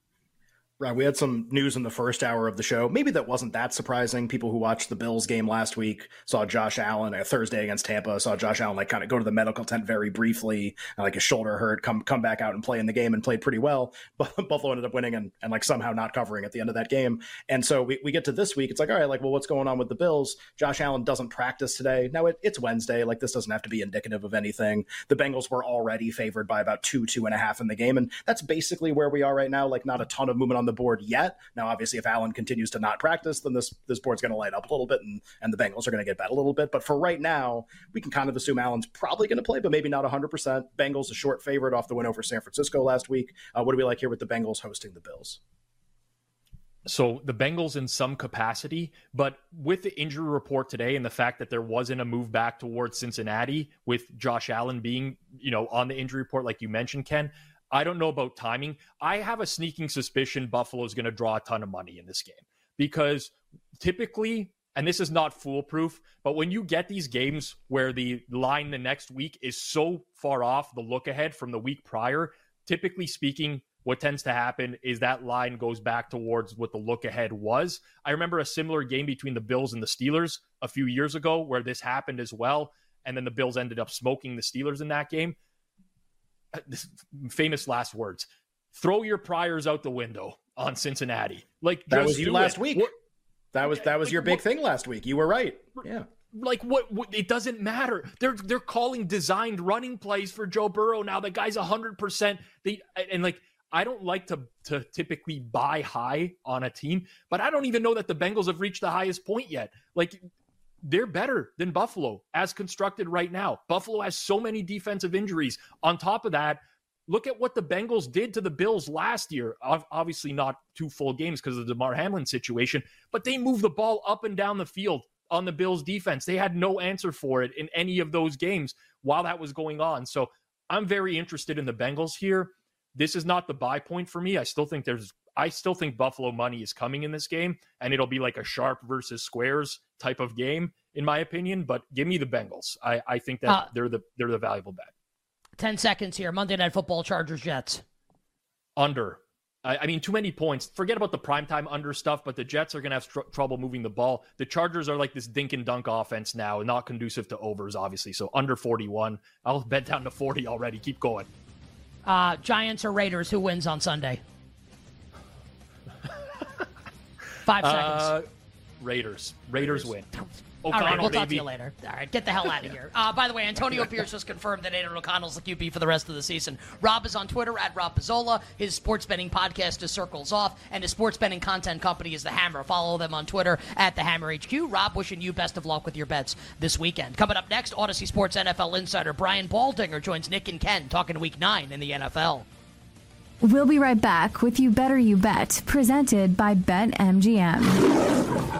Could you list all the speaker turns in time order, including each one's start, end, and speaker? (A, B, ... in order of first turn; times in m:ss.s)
0:00.8-0:45.4 A
0:46.8-1:25.4 B
1:26.5-1:32.9 B
1:31.9-1:32.9 A
1:33.5-1:36.0 A
1:33.6-1:34.4 B
1:36.3-1:50.2 B
1:50.8-2:24.9 B
2:25.6-2:27.8 C
2:28.8-2:41.3 B
2:42.0-2:44.2 C
2:47.4-2:48.1 C
2:47.6-2:48.2 B
2:48.8-2:50.1 B
2:50.6-2:51.4 B
2:50.7-3:12.4 C
3:13.4-3:17.8 D